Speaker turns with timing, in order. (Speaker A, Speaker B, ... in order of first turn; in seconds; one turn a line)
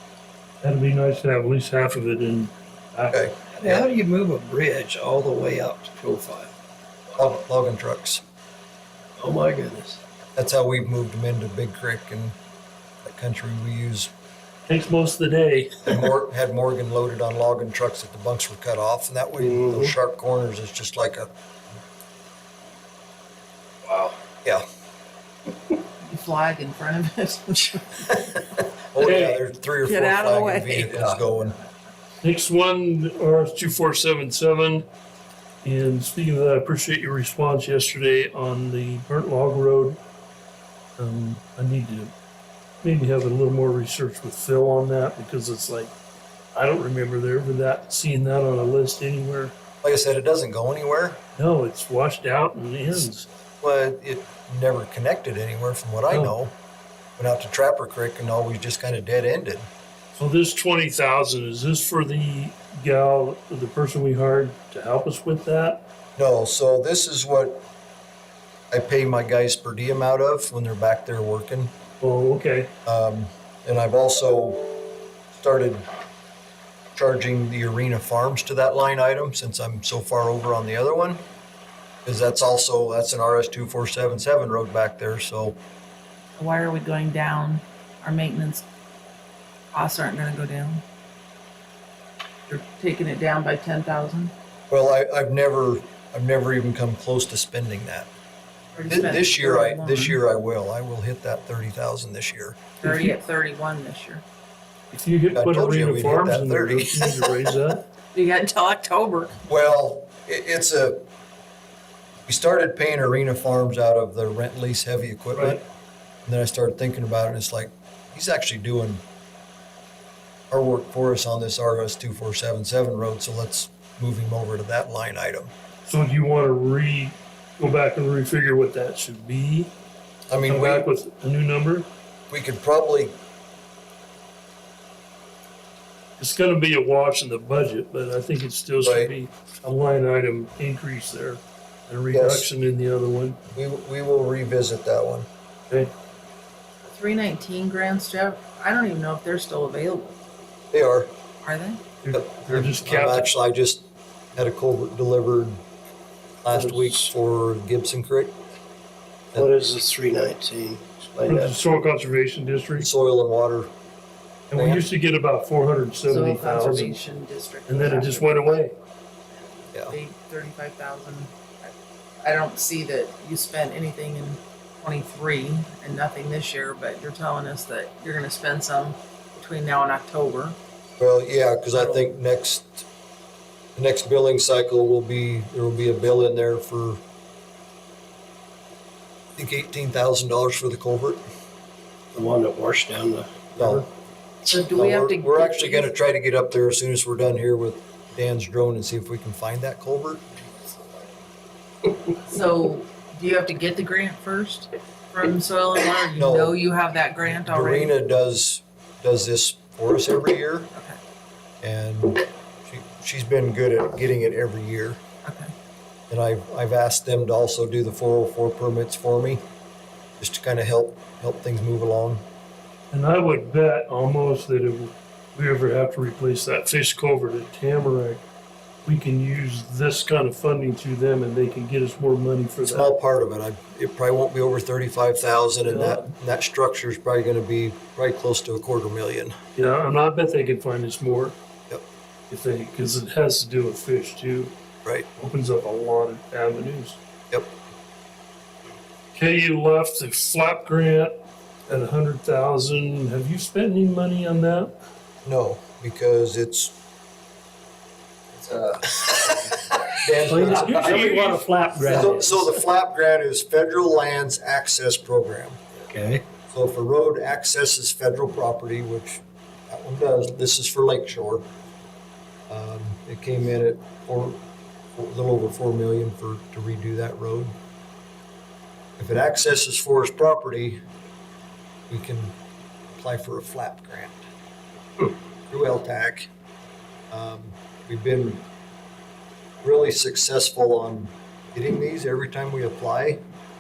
Speaker A: 0.6-3.2
Speaker B: 3.1-3.9
Speaker C: 3.5-6.5
Speaker C: 7.1-7.4
Speaker B: 7.2-8.2
Speaker C: 9.2-10.0
Speaker B: 10.4-12.3
Speaker B: 13.0-14.1
Speaker A: 14.7-16.0
Speaker B: 15.8-21.3
Speaker C: 19.4-19.9
Speaker C: 23.9-24.1
Speaker D: 26.0-28.4
Speaker B: 28.9-31.6
Speaker A: 29.0-29.4
Speaker D: 29.8-31.9
Speaker A: 32.2-34.9
Speaker A: 35.6-40.0
Speaker A: 41.0-42.1
Speaker A: 42.8-45.9
Speaker A: 46.5-49.6
Speaker B: 49.8-51.2
Speaker A: 51.4-53.3
Speaker B: 53.6-56.5
Speaker A: 56.1-56.4
Speaker B: 57.2-59.7
Speaker A: 60.2-65.8
Speaker B: 66.2-67.6
Speaker B: 68.7-71.7
Speaker A: 72.0-72.7
Speaker B: 72.8-75.9
Speaker B: 77.0-81.2
Speaker B: 82.0-85.6
Speaker D: 86.4-88.7
Speaker D: 89.7-90.8
Speaker D: 92.5-94.3
Speaker B: 94.7-98.1
Speaker D: 98.8-100.2
Speaker B: 98.9-102.6
Speaker D: 102.8-104.2
Speaker A: 102.8-103.2
Speaker A: 104.9-107.8
Speaker B: 105.3-107.2
Speaker D: 108.1-109.4
Speaker B: 109.5-111.0
Speaker B: 112.3-115.6
Speaker B: 116.2-119.0
Speaker B: 120.5-125.5
Speaker A: 125.9-129.7
Speaker B: 130.3-130.9
Speaker A: 130.4-131.9
Speaker B: 132.3-133.2
Speaker A: 136.2-143.4
Speaker B: 138.8-139.1
Speaker B: 142.1-142.5
Speaker B: 143.5-145.3
Speaker D: 146.8-150.2
Speaker B: 150.7-151.1
Speaker D: 151.4-151.8
Speaker A: 152.0-153.3
Speaker B: 152.1-155.6
Speaker B: 156.4-158.4
Speaker C: 156.6-156.8
Speaker C: 159.3-161.6
Speaker A: 161.3-162.9
Speaker B: 162.8-163.7
Speaker A: 164.5-167.0
Speaker B: 164.5-164.8
Speaker D: 166.1-180.6
Speaker A: 167.7-168.7
Speaker B: 181.0-182.9
Speaker D: 181.7-182.1
Speaker B: 183.8-187.0
Speaker B: 189.4-191.2
Speaker C: 192.1-193.8
Speaker B: 193.6-193.9
Speaker D: 194.5-195.9
Speaker B: 194.7-200.2
Speaker D: 202.2-207.9
Speaker B: 206.2-206.6
Speaker B: 207.4-210.7
Speaker B: 211.6-215.0
Speaker D: 215.2-215.5
Speaker B: 216.1-219.4
Speaker B: 220.2-222.2
Speaker A: 222.9-228.2
Speaker A: 228.8-232.9
Speaker B: 232.6-239.3
Speaker A: 235.7-236.1
Speaker A: 239.6-241.4
Speaker A: 242.3-244.5
Speaker A: 245.2-247.0
Speaker A: 249.1-251.2
Speaker A: 251.7-254.7
Speaker B: 255.2-256.8
Speaker B: 258.3-261.3
Speaker C: 260.3-262.4
Speaker A: 260.4-262.4
Speaker B: 261.8-265.8
Speaker C: 265.9-266.2
Speaker B: 266.4-271.4
Speaker B: 272.5-274.4
Speaker B: 274.9-277.6
Speaker B: 279.0-280.8
Speaker B: 281.9-282.3
Speaker B: 282.9-284.2
Speaker B: 285.5-286.3
Speaker B: 287.1-288.4
Speaker B: 289.6-293.2